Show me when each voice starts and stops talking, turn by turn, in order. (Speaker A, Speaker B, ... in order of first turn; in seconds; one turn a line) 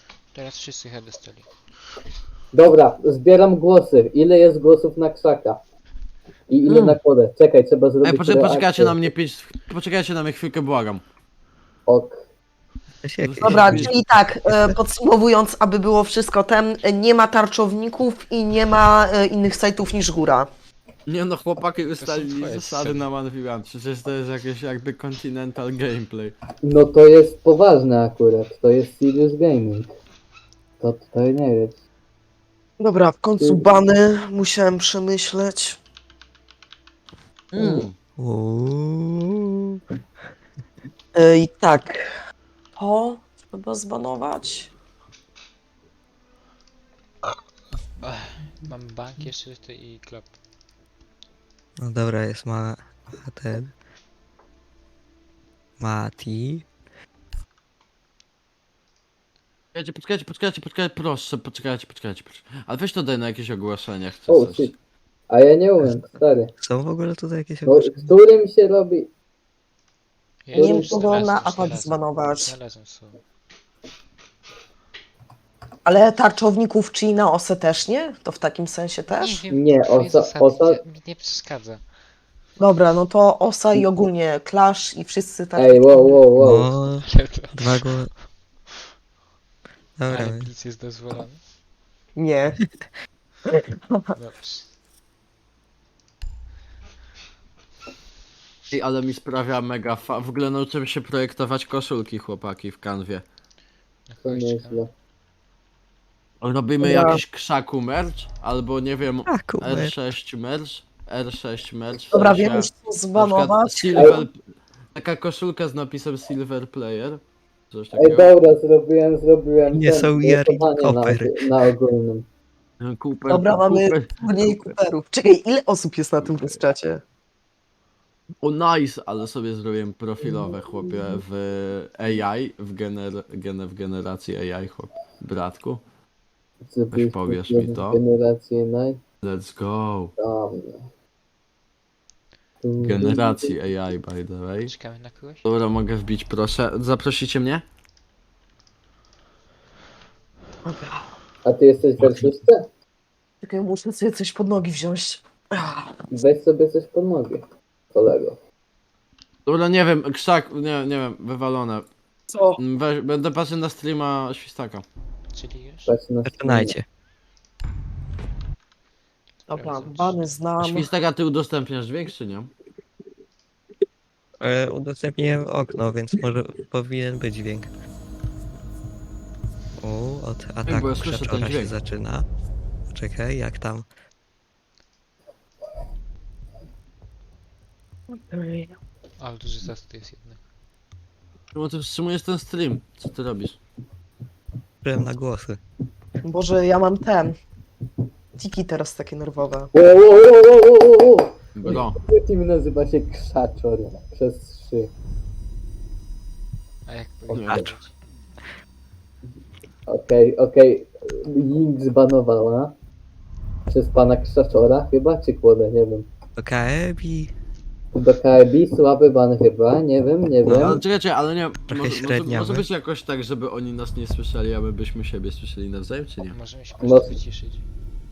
Speaker A: 0.3-1.5
Speaker B: 2.5-5.6
Speaker B: 6.5-9.1
Speaker C: 6.7-7.0
Speaker C: 8.0-11.0
Speaker B: 11.9-12.2
Speaker D: 13.0-13.9
Speaker C: 13.2-14.0
Speaker E: 13.4-20.5
Speaker C: 21.1-26.3
Speaker A: 21.9-23.1
Speaker B: 26.6-29.9
Speaker B: 30.8-31.8
Speaker E: 32.8-35.8
Speaker B: 33.4-33.7
Speaker C: 37.5-37.9
Speaker D: 38.2-39.8
Speaker E: 41.1-42.1
Speaker E: 42.8-44.7
Speaker A: 48.0-50.4
Speaker D: 51.8-53.7
Speaker D: 55.8-56.6
Speaker C: 59.7-64.7
Speaker B: 64.3-64.7
Speaker B: 65.3-66.5
Speaker D: 66.6-68.1
Speaker B: 67.7-69.1
Speaker A: 70.4-73.2
Speaker E: 70.5-72.5
Speaker B: 70.5-71.0
Speaker E: 75.8-79.4
Speaker A: 79.1-81.9
Speaker B: 79.5-80.8
Speaker E: 82.6-86.0
Speaker B: 85.5-86.7
Speaker D: 86.4-88.2
Speaker A: 87.0-88.7
Speaker D: 90.0-90.5
Speaker A: 90.1-91.4
Speaker E: 92.1-92.8
Speaker E: 93.5-94.1
Speaker A: 94.1-94.7
Speaker C: 98.7-103.2
Speaker A: 104.1-104.8
Speaker B: 104.2-104.9
Speaker C: 106.4-114.4
Speaker E: 106.8-107.2
Speaker D: 109.3-109.9
Speaker E: 112.1-114.2
Speaker C: 114.9-118.3
Speaker B: 117.9-122.2
Speaker D: 119.7-121.5
Speaker C: 122.8-124.5
Speaker E: 123.3-127.0
Speaker C: 126.2-126.6
Speaker C: 128.4-135.8
Speaker B: 136.7-139.0
Speaker C: 136.9-138.0
Speaker C: 139.2-140.1
Speaker B: 140.2-140.8
Speaker B: 142.6-143.5
Speaker C: 142.8-144.7
Speaker A: 144.6-145.4
Speaker C: 145.4-147.6
Speaker E: 150.6-151.1
Speaker B: 151.4-152.7
Speaker E: 153.4-156.0
Speaker B: 156.1-157.4
Speaker B: 157.9-158.4
Speaker C: 159.4-161.9
Speaker E: 162.3-162.6
Speaker C: 162.6-164.8
Speaker A: 165.3-165.9
Speaker B: 165.9-166.7
Speaker D: 166.2-166.8
Speaker E: 169.5-170.9
Speaker A: 169.5-170.2
Speaker C: 170.6-172.5
Speaker D: 174.4-177.7
Speaker D: 179.8-182.3
Speaker C: 180.6-181.7
Speaker D: 182.9-183.9
Speaker E: 188.1-188.8
Speaker A: 189.2-190.4
Speaker C: 191.5-193.6
Speaker D: 194.8-195.6
Speaker E: 196.2-197.4
Speaker E: 198.3-199.7
Speaker B: 199.7-204.9
Speaker C: 201.5-202.0
Speaker A: 206.8-207.9
Speaker C: 207.3-207.7
Speaker B: 209.9-212.7
Speaker B: 213.7-216.1
Speaker D: 216.4-217.3
Speaker B: 217.9-220.8
Speaker D: 220.4-220.8
Speaker C: 220.4-226.3
Speaker D: 221.7-222.7
Speaker A: 226.2-227.7
Speaker B: 226.8-227.1